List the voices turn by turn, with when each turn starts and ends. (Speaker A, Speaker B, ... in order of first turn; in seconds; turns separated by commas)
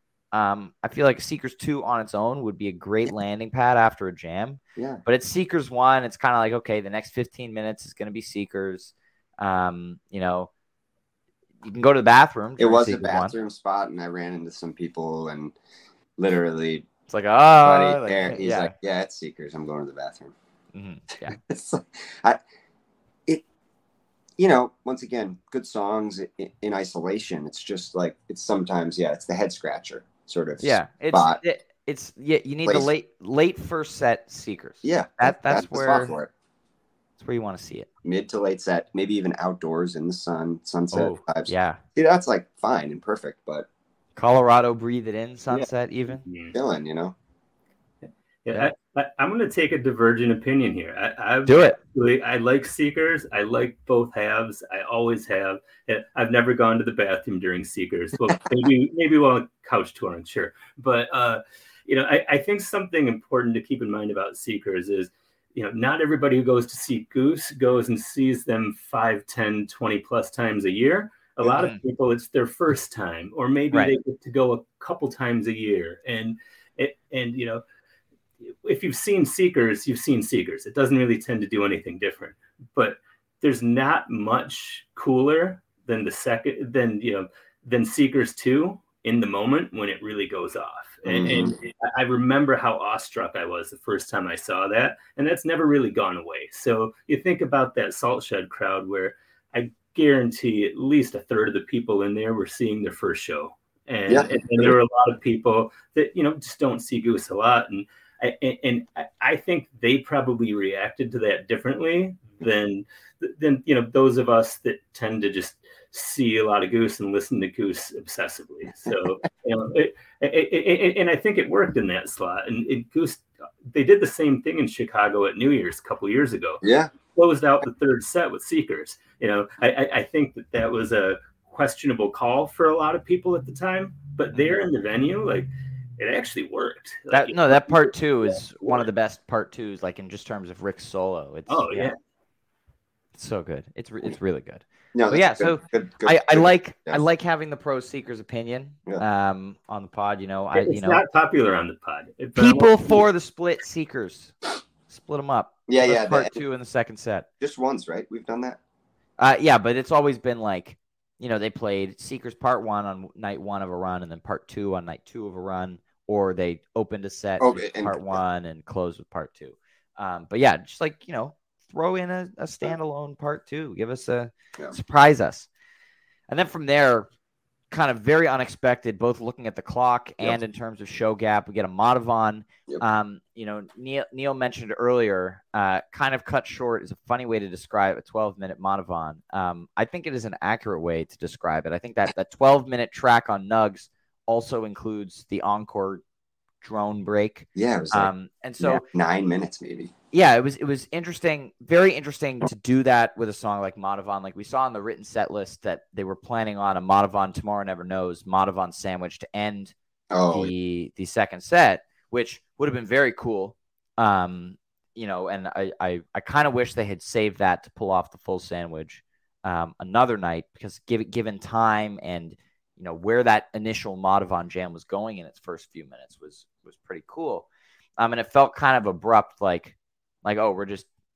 Speaker A: 0.3-10.5, Speaker B: 4.8-5.0, Speaker A: 11.6-13.3, Speaker B: 12.6-15.5, Speaker B: 16.2-16.9, Speaker A: 17.1-18.7, Speaker B: 17.6-20.3, Speaker A: 20.7-21.4, Speaker B: 21.3-22.4, Speaker B: 24.4-31.4, Speaker A: 30.6-36.1, Speaker B: 34.8-36.3, Speaker A: 37.2-37.9, Speaker B: 38.0-43.7, Speaker A: 40.9-41.8, Speaker A: 44.1-46.2, Speaker C: 46.2-46.5, Speaker B: 46.5-47.1, Speaker C: 48.5-77.6, Speaker A: 51.5-51.8, Speaker A: 71.4-71.8, Speaker C: 78.5-126.6, Speaker B: 91.0-91.5, Speaker B: 104.1-104.7, Speaker B: 126.6-126.9, Speaker C: 127.1-138.8, Speaker A: 134.3-134.6, Speaker A: 137.1-141.9, Speaker C: 141.5-141.9, Speaker A: 143.2-151.0, Speaker B: 144.9-147.0, Speaker C: 150.5-152.8, Speaker A: 152.3-154.3, Speaker A: 154.9-157.2, Speaker B: 155.7-156.3, Speaker B: 157.4-158.6, Speaker A: 159.2-175.5, Speaker B: 167.4-168.2, Speaker A: 176.3-177.1, Speaker A: 177.7-196.0, Speaker A: 196.6-198.8, Speaker B: 197.6-199.9, Speaker A: 200.1-209.7, Speaker B: 210.1-210.5, Speaker A: 210.3-227.4, Speaker A: 228.0-230.9